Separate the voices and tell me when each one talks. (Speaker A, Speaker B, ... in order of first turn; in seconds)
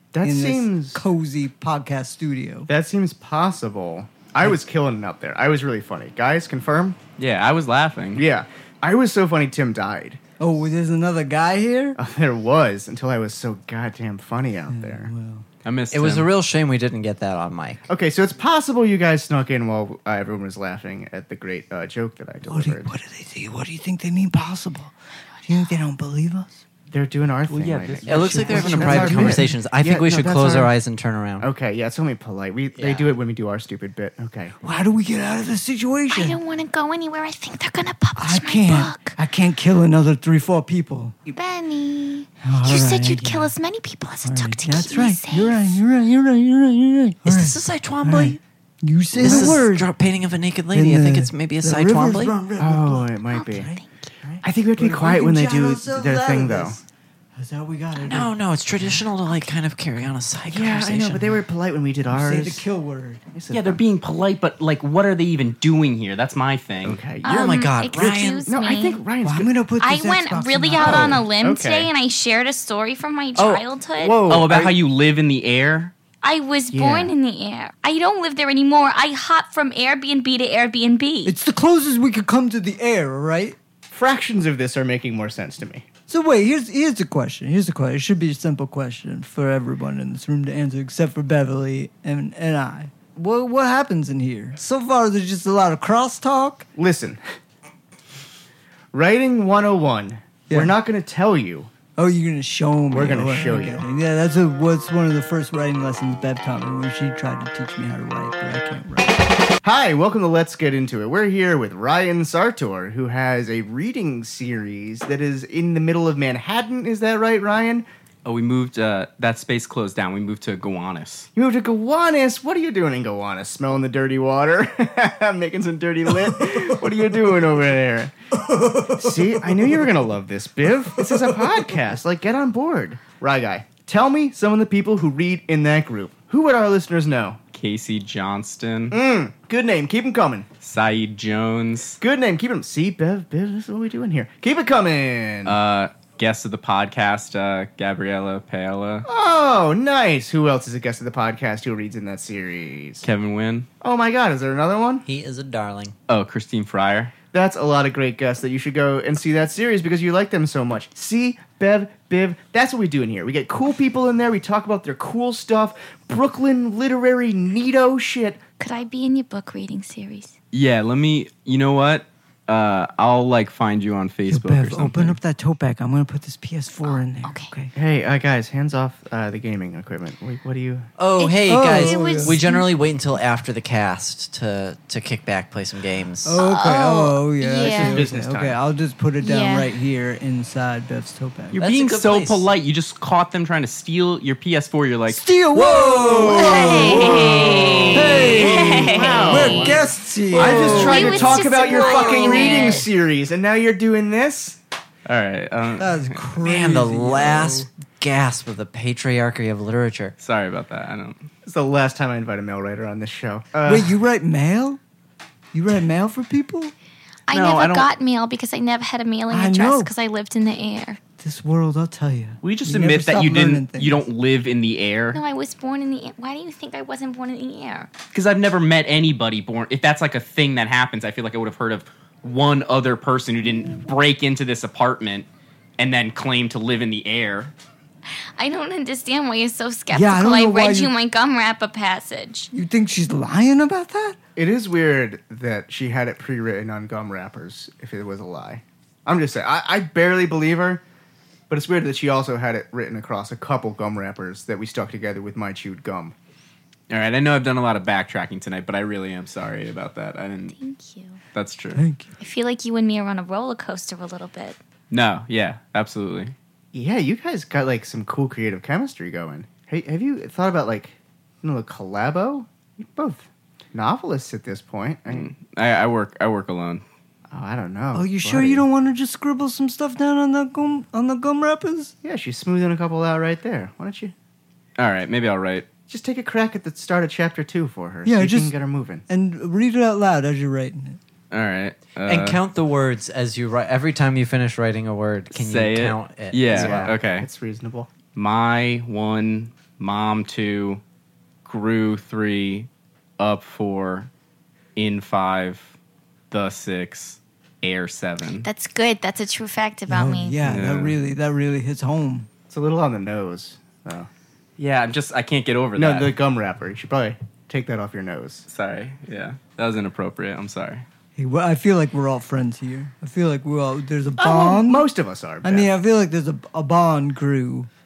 Speaker A: 0.1-1.0, 2.7-7.0, 8.2-10.2, 12.0-15.1, 17.9-22.9, 26.9-30.7, 31.4-34.5, 49.2-49.5, 52.6-53.7, 54.2-56.8, 60.5-62.6, 63.3-63.8, 66.8-69.5, 70.8-71.9, 74.0-74.7, 76.7-77.1, 83.9-85.8, 96.8-97.2, 98.9-101.7, 102.9-103.8, 109.6-117.8, 121.3-128.1, 128.9-137.4, 138.9-140.5, 142.0-145.6, 149.1-153.0, 153.8-155.0, 157.3-168.4, 177.7-180.9, 187.6-188.6, 195.5-204.6, 211.4-214.0, 244.3-250.8, 251.5-256.1, 266.7-275.3, 277.3-278.6, 282.0-284.1, 285.9-289.0, 296.5-297.9, 312.5-314.1, 315.8-318.4, 324.2-325.7
Speaker B: 0.2-2.7, 10.4-12.0, 14.7-15.4, 22.5-26.6, 28.1-29.6, 34.6-36.4, 38.1-41.3, 42.4-43.5, 44.2-49.9, 50.7-53.8, 54.7-56.8, 57.3-58.3, 62.1-63.2, 69.2-71.2, 81.2-83.6, 86.1-96.7, 100.5-100.7, 102.0-109.1, 126.1-126.7, 128.3-130.1, 130.8-131.8, 174.3-177.7, 181.4-182.4, 186.2-191.6, 195.1-202.8, 205.8-207.7, 213.7-214.8, 215.5-216.7, 219.3-219.9, 221.2-224.0, 239.9-240.9, 242.5-244.2, 261.7-262.1, 277.9-281.9, 288.0-288.5, 289.1-291.0, 309.9-312.3, 321.2-324.9, 325.4-327.7
Speaker C: 7.2-8.2, 15.6-16.3, 27.5-29.0, 63.5-67.0, 74.3-75.9, 118.2-121.3, 137.5-139.0, 140.6-142.0, 145.4-149.1, 153.0-153.7, 156.1-157.1, 170.5-175.2, 191.5-195.2, 197.3-198.3, 200.4-200.9, 205.0-206.2, 210.2-211.3, 217.3-217.9, 222.4-225.2, 228.1-235.3, 235.8-237.5, 256.9-260.6, 261.3-261.8, 264.9-266.3, 275.1-276.8, 284.8-285.7, 291.3-292.4, 295.3-297.3, 298.1-300.8, 301.4-304.1, 304.8-305.7, 306.3-308.5, 310.4-310.9, 314.6-316.1, 318.5-320.8
Speaker D: 15.9-17.8, 28.1-31.5, 32.7-33.1, 47.2-48.4, 49.1-52.3, 57.9-61.4, 67.2-68.5, 73.4-73.6, 155.0-155.9, 181.0-186.4, 191.6-192.5, 206.4-210.1, 292.0-296.9
Speaker E: 36.1-39.1, 41.3-45.8, 53.3-54.0, 67.2-69.0, 69.8-74.2, 76.2-81.3, 168.6-170.3, 176.8-177.5, 181.2-182.7, 186.4-188.0, 189.2-189.7, 196.2-199.7, 200.3-202.9, 217.3-221.0, 225.1-227.9, 238.4-242.5, 260.5-261.2, 262.2-264.6, 308.4-310.4